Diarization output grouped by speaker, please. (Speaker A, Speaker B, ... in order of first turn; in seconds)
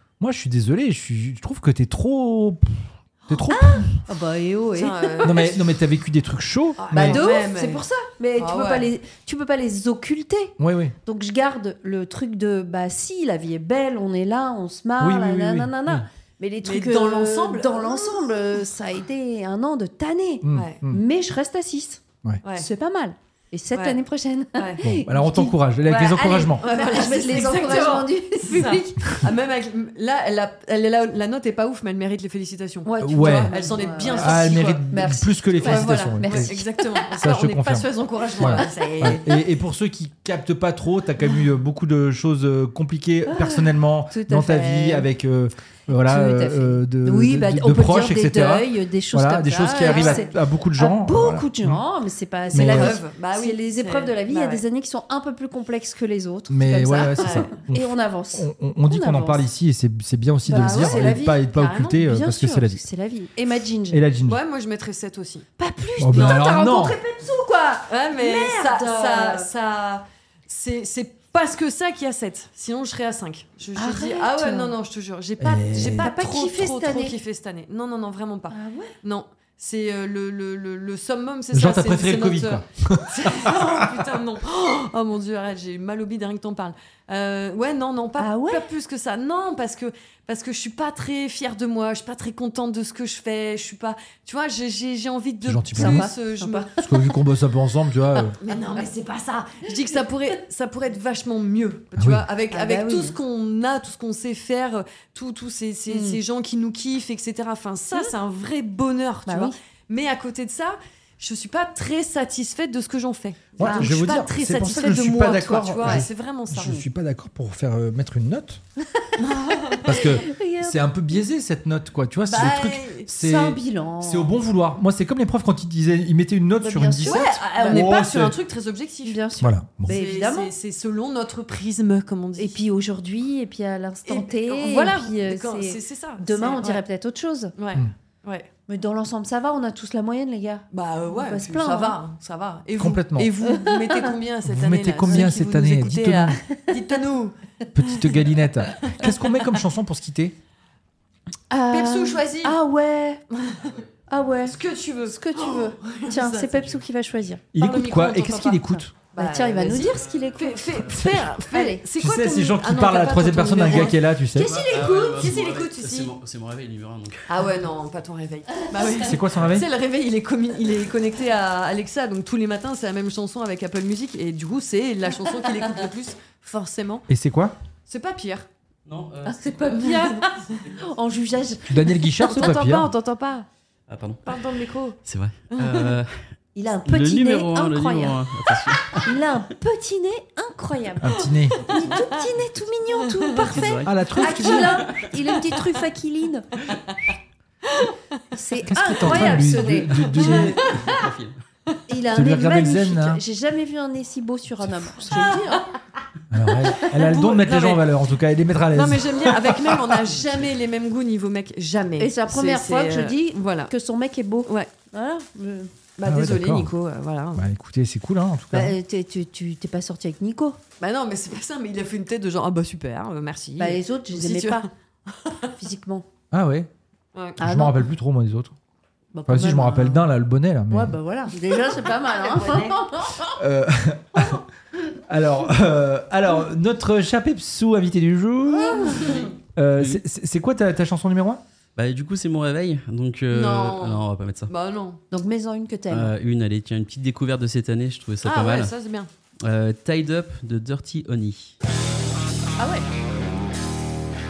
Speaker A: 0.2-3.9, 5.2-7.2, 10.6-10.9, 15.0-16.1, 20.4-21.0, 24.8-26.6, 33.0-36.6, 37.2-37.9, 38.4-51.8, 52.5-53.0, 56.5-62.8, 63.9-64.4, 66.0-67.0, 75.4-76.1, 81.5-84.0, 95.4-96.1, 96.8-98.3, 102.0-102.2, 113.6-118.6, 119.8-128.3, 129.4-130.0, 142.8-143.3, 144.4-146.4, 147.7-150.3, 157.5-158.9, 160.9-161.3, 162.0-164.5, 169.0-169.7, 177.1-177.5, 181.7-182.9, 191.0-191.6, 193.8-194.8, 198.7-200.6, 202.1-203.2, 204.7-204.9, 206.3-210.1, 216.0-216.7, 217.3-218.7, 226.3-226.7, 227.4-228.5, 229.3-231.0, 233.3-234.4, 235.1-241.4
Speaker B: 3.7-5.3, 6.9-29.2, 32.9-37.0, 38.5-39.1, 43.3-45.1, 45.9-59.4, 60.5-64.0, 65.6-69.5, 73.8-74.7, 76.0-77.2, 78.5-78.9, 88.2-88.6, 95.7-97.0, 102.5-103.2, 105.9-106.2, 109.2-109.5, 113.6-113.9, 118.9-120.9, 122.3-124.3, 126.6-127.8, 129.1-130.5, 132.4-137.5, 138.7-142.0, 143.4-144.1, 151.5-153.2, 154.1-157.4, 158.6-161.8, 164.3-165.6, 179.2-182.4, 186.5-188.2, 188.9-196.5, 198.3-200.9, 201.9-205.7, 212.0-215.7, 218.5-220.6, 223.6-224.7, 225.6-226.1, 227.4-227.8, 229.1-230.1, 230.7-233.4, 234.1-234.4, 238.5-239.3, 245.1-246.1
Speaker C: 4.7-5.6, 6.8-7.8, 8.3-8.9, 16.6-18.3, 20.5-20.8, 23.7-24.0, 24.5-24.9, 26.6-34.9, 35.6-39.3, 49.8-50.3, 52.5-54.6, 57.2-57.5, 60.5-61.9, 64.2-65.5, 66.1-66.4, 67.9-96.7, 98.4-116.7, 119.2-119.9, 122.3-123.0, 127.0-129.2, 129.8-132.6, 134.1-136.8, 137.6-138.5, 140.7-148.2, 148.8-149.1, 151.7-152.6, 153.3-153.7, 154.4-156.8, 157.6-158.6, 159.1-166.1, 167.3-177.1, 177.9-178.5, 182.2-183.5, 184.2-185.0, 185.5-185.9, 193.0-193.5, 197.7-197.9, 199.0-200.9, 205.1-205.6, 206.8-207.9, 208.7-213.7, 216.0-217.4, 220.8-225.5, 231.6-232.8, 238.9-239.2, 243.3-245.0, 248.2-249.1
Speaker D: 153.6-153.9, 159.9-160.3, 164.4-167.3, 178.8-179.9, 183.9-184.4, 185.0-186.3, 186.8-189.1, 191.8-192.2, 193.3-194.0, 194.8-195.1, 200.3-201.4, 241.8-244.5, 245.9-248.7, 249.4-251.5